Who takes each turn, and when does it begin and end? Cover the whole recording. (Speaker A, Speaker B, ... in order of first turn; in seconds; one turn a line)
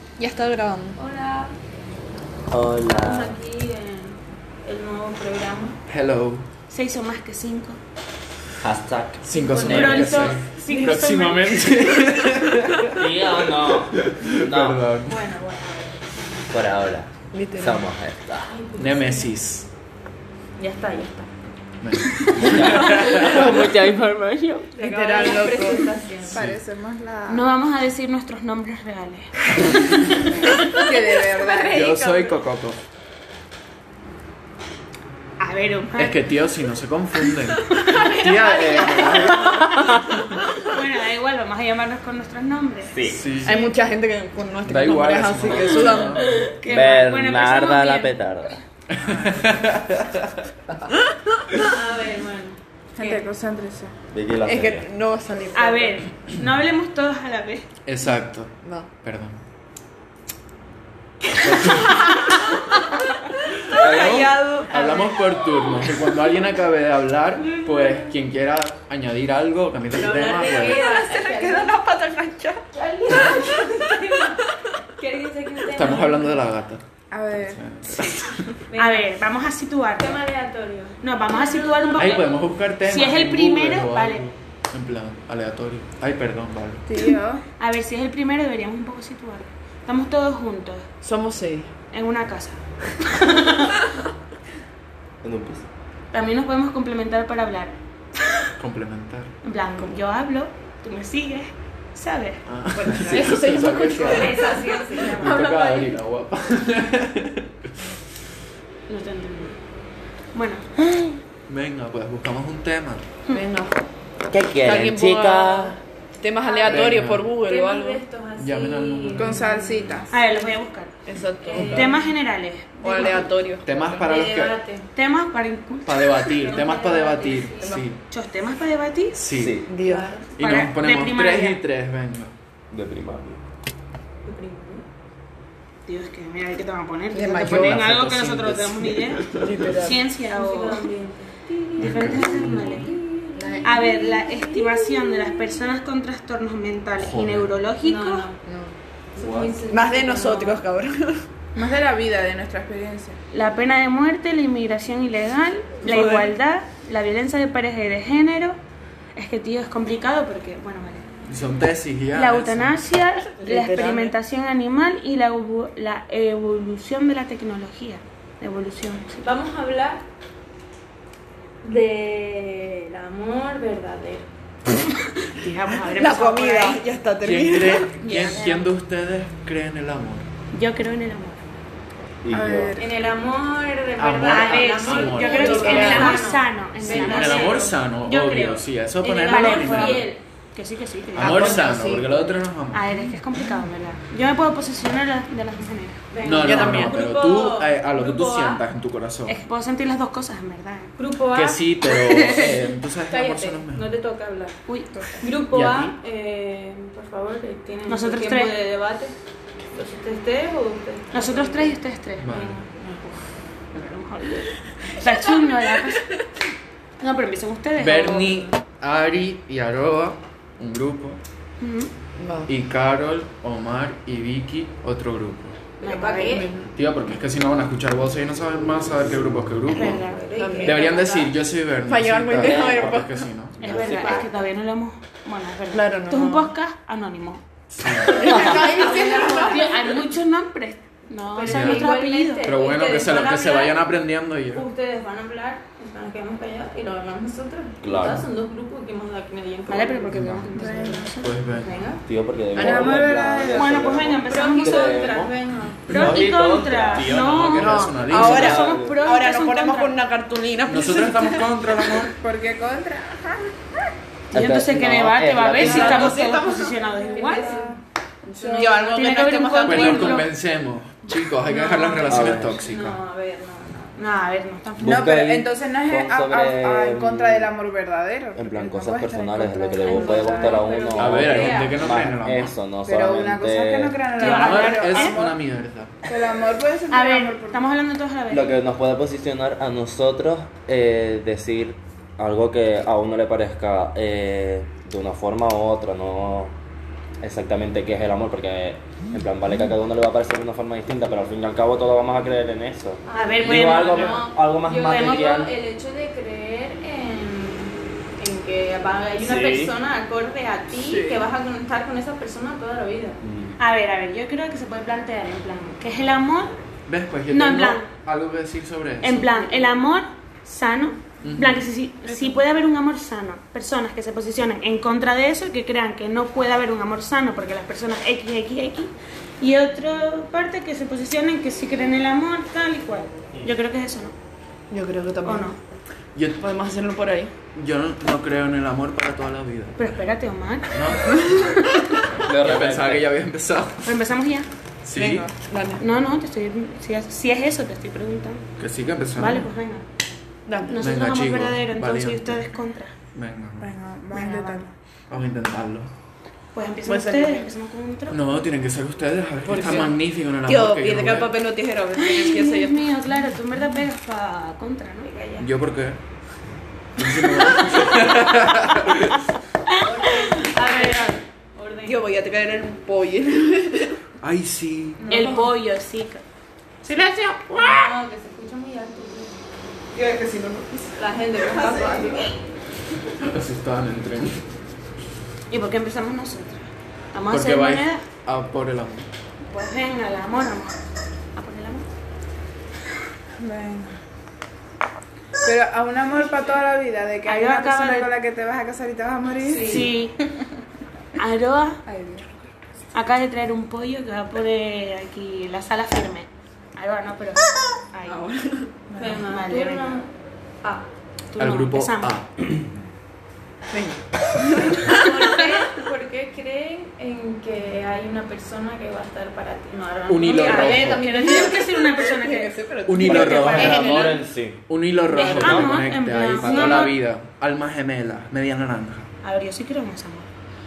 Speaker A: 0.2-1.0
Speaker B: 0.9-1.5
Speaker C: 2.5-3.4
Speaker B: 2.9-5.8
Speaker D: 5.9-6.5
Speaker E: 6.7-7.8
Speaker C: 8.6-10.3
Speaker D: 9.2-15.2
Speaker B: 9.3-9.9
Speaker E: 9.7-11.7
Speaker C: 12.9-14.9
Speaker B: 15.0-16.0
Speaker C: 16.5-18.5
Speaker A: 17.3-17.9
Speaker B: 18.4-19.3
Speaker D: 18.8-19.7
Speaker B: 20.6-21.3
Speaker D: 21.8-23.5
Speaker C: 22.3-24.7
Speaker B: 22.7-23.2
Speaker A: 23.1-23.5
Speaker B: 24.7-26.5
Speaker A: 24.8-25.9
Speaker F: 24.9-27.4
Speaker D: 26.2-26.6
Speaker E: 27.3-30.0
Speaker B: 30.6-32.4
Speaker F: 30.6-31.9
Speaker D: 31.7-32.8
Speaker E: 35.4-36.2
Speaker D: 36.0-40.4
Speaker E: 37.7-40.0
Speaker B: 37.9-39.4
Speaker E: 40.5-43.7
Speaker C: 42.9-43.2
Speaker D: 43.1-43.6
Speaker A: 43.4-46.4
Speaker D: 44.6-46.2
Speaker E: 45.8-48.1
Speaker C: 46.6-48.5
Speaker D: 48.9-50.5
Speaker B: 51.6-52.6
Speaker F: 53.0-53.9
Speaker C: 54.1-54.9
Speaker A: 54.5-56.0
Speaker E: 55.5-57.6
Speaker D: 57.9-59.4
Speaker A: 58.6-58.9
Speaker D: 61.4-62.3
Speaker D: 63.7-70.9
Speaker A: 63.7-65.0
Speaker B: 67.4-68.1
Speaker B: 70.0-71.7
Speaker A: 70.0-72.7
Speaker B: 72.7-74.4
Speaker A: 73.2-74.2
Speaker B: 75.0-76.5
Speaker D: 75.7-78.5
Speaker F: 77.1-77.6
Speaker B: 78.7-79.1
Speaker E: 78.8-80.2
Speaker B: 80.0-82.2
Speaker E: 81.0-82.3
Speaker D: 82.0-86.9
Speaker E: 82.8-84.2
Speaker F: 86.9-87.4
Speaker E: 87.6-90.9
Speaker A: 91.0-91.7
Speaker E: 91.9-93.8
Speaker C: 95.2-95.7
Speaker E: 96.1-97.8
Speaker D: 98.6-99.3
Speaker E: 99.4-102.4
Speaker D: 102.5-107.7
Speaker A: 102.7-105.2
Speaker B: 103.9-105.9
Speaker E: 108.9-109.6
Speaker E: 110.3-110.7
Speaker D: 111.5-113.1
Speaker A: 113.3-113.8
Speaker C: 114.3-115.8
Speaker A: 114.6-118.0
Speaker B: 116.4-120.0
Speaker D: 116.7-117.3
Speaker D: 118.4-119.4
Speaker F: 119.2-120.1
Speaker E: 120.1-121.0
Speaker A: 121.0-121.9
Speaker B: 121.4-122.0
Speaker E: 121.5-123.2
Speaker A: 122.8-123.7
Speaker D: 123.6-124.6
Speaker B: 123.8-124.9
Speaker E: 124.9-126.6
Speaker D: 125.8-128.0
Speaker B: 126.3-127.8
Speaker E: 128.1-129.2
Speaker D: 129.1-129.7
Speaker C: 129.3-129.7
Speaker A: 129.6-130.1
Speaker B: 129.8-130.3
Speaker D: 130.4-132.3
Speaker E: 130.4-131.6
Speaker C: 132.7-133.4
Speaker B: 134.2-134.8
Speaker E: 135.8-140.8
Speaker A: 137.1-137.8
Speaker D: 137.4-139.7
Speaker A: 139.3-140.0
Speaker B: 140.3-145.6
Speaker E: 141.8-142.9
Speaker D: 141.8-142.9
Speaker A: 143.3-143.8
Speaker E: 143.6-148.3
Speaker D: 147.0-147.5
Speaker B: 147.8-148.4
Speaker A: 148.4-148.7
Speaker B: 149.2-150.6
Speaker D: 149.2-149.6
Speaker A: 149.7-151.2
Speaker F: 151.6-153.2
Speaker E: 153.3-158.6
Speaker A: 155.8-156.3
Speaker E: 159.1-161.1
Speaker D: 161.3-162.8
Speaker E: 162.1-169.3
Speaker A: 163.3-164.1
Speaker B: 169.2-170.0
Speaker B: 171.6-174.3
Speaker E: 175.2-176.8
Speaker A: 175.8-178.2
Speaker D: 177.2-180.3
Speaker E: 178.0-178.5
Speaker B: 178.1-178.4
Speaker E: 180.5-181.4
Speaker C: 182.2-182.8
Speaker F: 182.3-182.9
Speaker B: 182.8-187.7
Speaker D: 184.0-186.2
Speaker E: 184.2-191.7
Speaker A: 185.2-186.3
Speaker D: 186.8-190.1
Speaker B: 189.0-190.2
Speaker D: 191.2-192.9
Speaker A: 191.2-192.2
Speaker E: 192.7-196.0
Speaker B: 196.1-198.6
Speaker D: 196.2-199.4
Speaker A: 196.4-197.0
Speaker E: 199.3-200.9
Speaker B: 201.0-204.6
Speaker D: 201.3-203.9
Speaker E: 204.7-205.2
Speaker B: 205.2-209.1
Speaker D: 205.5-205.9
Speaker E: 207.9-208.5
Speaker B: 209.7-211.8
Speaker E: 211.1-216.1
Speaker D: 212.2-212.6
Speaker A: 215.3-215.8
Speaker E: 217.0-218.4
Speaker D: 217.8-221.2
Speaker E: 221.6-221.9
Speaker A: 222.2-222.5
Speaker D: 222.5-225.6
Speaker B: 225.8-226.5
Speaker E: 225.8-226.4
Speaker A: 226.0-226.7
Speaker D: 226.7-230.0
Speaker E: 229.7-230.2
Speaker B: 229.9-231.3
Speaker A: 230.4-230.9
Speaker D: 230.6-234.0
Speaker A: 231.8-233.2
Speaker C: 232.4-233.0
Speaker E: 233.6-237.4
Speaker C: 233.6-234.3
Speaker A: 235.7-236.5
Speaker D: 237.7-238.3
Speaker A: 238.1-239.7
Speaker E: 238.1-238.6
Speaker B: 238.2-239.8
Speaker E: 239.3-242.4
Speaker B: 241.3-243.8
Speaker D: 241.5-241.9
Speaker D: 242.4-244.7
Speaker B: 244.5-250.8
Speaker C: 247.8-248.2
Speaker E: 249.7-251.4
Speaker D: 250.1-250.5
Speaker F: 250.5-251.1
Speaker D: 251.2-251.8
Speaker B: 251.5-252.0
Speaker C: 252.1-255.3
Speaker A: 252.6-253.5
Speaker F: 252.6-254.0
Speaker E: 253.5-255.2
Speaker B: 254.2-255.9
Speaker C: 255.9-259.0
Speaker E: 255.9-259.9
Speaker D: 255.9-256.2
Speaker D: 256.9-258.7
Speaker A: 257.6-261.9
Speaker D: 260.6-262.1
Speaker F: 262.1-263.5
Speaker E: 264.3-267.5
Speaker C: 264.3-266.2
Speaker A: 265.6-267.5
Speaker B: 267.0-267.8
Speaker F: 267.2-268.8
Speaker B: 268.4-268.7
Speaker A: 268.5-270.2
Speaker E: 268.6-270.3
Speaker D: 269.6-273.0
Speaker B: 271.4-274.0
Speaker C: 272.1-272.6
Speaker E: 273.9-275.0
Speaker C: 274.8-277.5
Speaker F: 274.8-280.7
Speaker C: 278.3-284.0
Speaker B: 279.8-282.0
Speaker D: 280.9-282.5
Speaker F: 282.9-285.4
Speaker E: 284.2-285.2
Speaker D: 284.2-286.0
Speaker F: 286.0-287.6
Speaker E: 286.9-288.5
Speaker C: 288.3-296.5
Speaker C: 297.2-305.5
Speaker B: 303.0-313.2
Speaker E: 303.1-304.2
Speaker E: 304.9-305.2
Speaker C: 309.2-309.7
Speaker A: 310.8-311.2
Speaker C: 313.2-313.6
Speaker E: 313.6-316.6
Speaker D: 316.9-319.3
Speaker E: 317.3-317.9
Speaker E: 319.0-334.1
Speaker B: 319.4-319.6
Speaker D: 321.2-321.6
Speaker A: 334.7-335.5
Speaker E: 335.2-335.6
Speaker D: 336.1-336.4
Speaker A: 336.4-337.3
Speaker D: 337.5-339.9
Speaker E: 339.8-342.0
Speaker D: 340.7-341.7
Speaker D: 342.2-344.0
Speaker C: 342.2-343.1
Speaker E: 343.8-344.5
Speaker D: 344.8-345.3
Speaker A: 344.9-345.8
Speaker E: 345.8-348.4
Speaker D: 348.6-349.5
Speaker E: 349.2-349.8
Speaker A: 350.5-350.8
Speaker E: 350.6-352.9
Speaker D: 350.8-352.5
Speaker D: 353.1-353.7
Speaker F: 353.6-354.7
Speaker E: 354.1-354.5
Speaker D: 355.1-355.9
Speaker E: 356.5-358.3
Speaker A: 356.9-357.5
Speaker D: 358.1-361.3
Speaker A: 359.4-362.9
Speaker E: 362.0-365.1
Speaker B: 365.0-365.5
Speaker D: 365.4-366.0
Speaker D: 367.0-369.3
Speaker E: 367.7-368.1
Speaker E: 369.7-371.0
Speaker B: 369.8-372.1
Speaker A: 371.8-374.0
Speaker D: 374.2-375.0
Speaker B: 375.0-375.5
Speaker E: 375.1-376.2
Speaker A: 376.8-378.0
Speaker B: 377.6-379.3
Speaker A: 379.9-382.3
Speaker B: 380.9-382.3
Speaker D: 383.1-384.4
Speaker E: 385.5-388.0
Speaker D: 387.3-389.1
Speaker E: 389.5-390.8
Speaker E: 391.3-391.9
Speaker F: 393.4-394.0
Speaker F: 395.4-399.9
Speaker E: 397.2-398.1
Speaker B: 399.4-399.9
Speaker E: 399.6-400.1
Speaker E: 401.2-401.8
Speaker F: 401.9-402.3
Speaker E: 402.9-408.2
Speaker A: 408.1-408.7
Speaker F: 408.9-409.2
Speaker B: 409.0-410.1
Speaker E: 409.1-410.0
Speaker E: 411.3-412.1
Speaker D: 411.4-412.6
Speaker A: 413.7-415.5
Speaker B: 414.7-421.5
Speaker D: 420.1-421.0
Speaker A: 420.3-424.2
Speaker E: 420.3-424.1
Speaker D: 422.9-429.1
Speaker C: 423.0-424.6
Speaker E: 425.1-427.0
Speaker C: 425.3-425.6
Speaker A: 426.4-426.7
Speaker E: 429.2-430.3